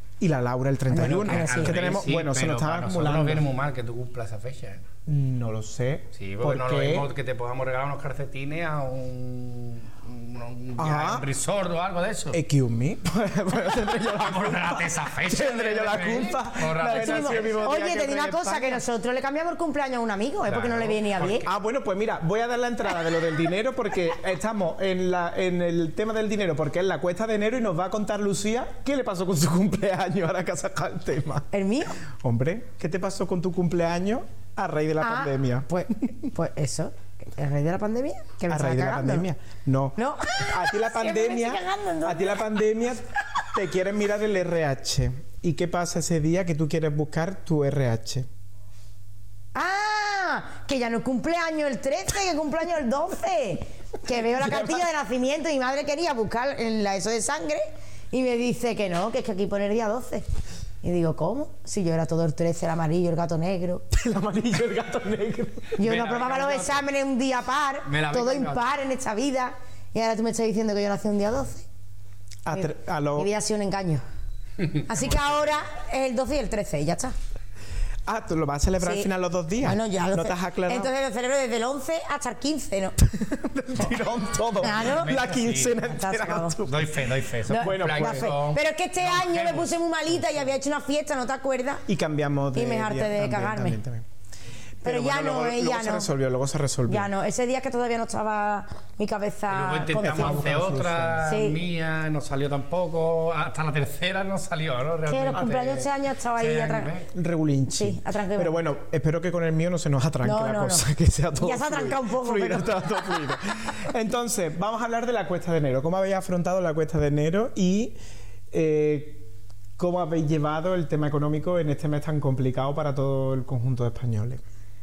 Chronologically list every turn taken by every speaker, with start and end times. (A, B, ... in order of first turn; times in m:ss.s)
0:00.2-0:03.4 A
0:00.9-0:02.0 B
0:01.0-0:04.8 C
0:05.1-0:07.1 A
0:06.1-0:12.4 C
0:10.8-0:11.2 A
0:12.3-0:18.8 A
0:13.9-0:17.6 C
0:16.8-0:21.5 B
0:20.5-0:21.4 C
0:21.4-0:31.5 A
0:31.5-0:32.0 B
0:32.0-0:35.7 A
0:35.0-0:39.2 B
0:38.5-0:48.3 A
0:40.0-0:42.4 B
0:49.5-1:00.2 B
0:54.4-0:54.8 A
1:00.8-1:03.8 B
1:03.9-1:05.8 A
1:05.8-1:11.6 B
1:05.8-1:06.9 C
1:07.9-1:08.7 C
1:12.4-1:13.3 A
1:12.5-1:14.0 B
1:14.7-1:15.6 C
1:14.9-1:17.1 B
1:18.1-1:20.9 A
1:18.8-1:19.1 B
1:19.6-1:23.0 B
1:23.0-1:28.3 A
1:24.6-1:25.2 B
1:24.8-1:25.8 C
1:25.8-1:26.6 B
1:26.6-1:30.4 C
1:27.5-1:31.8 B
1:31.9-1:34.0 A
1:32.5-1:33.8 B
1:34.8-1:36.1 B
1:34.8-1:37.1 A
1:36.9-1:40.4 B
1:39.5-1:47.1 C
1:39.9-1:41.3 A
1:41.2-1:41.6 B
1:45.1-1:46.9 B
1:47.1-1:58.0 A
1:47.7-1:48.6 B
1:50.2-1:50.8 B
1:51.4-1:53.0 B
1:58.5-1:59.2 A
1:59.8-2:04.4 A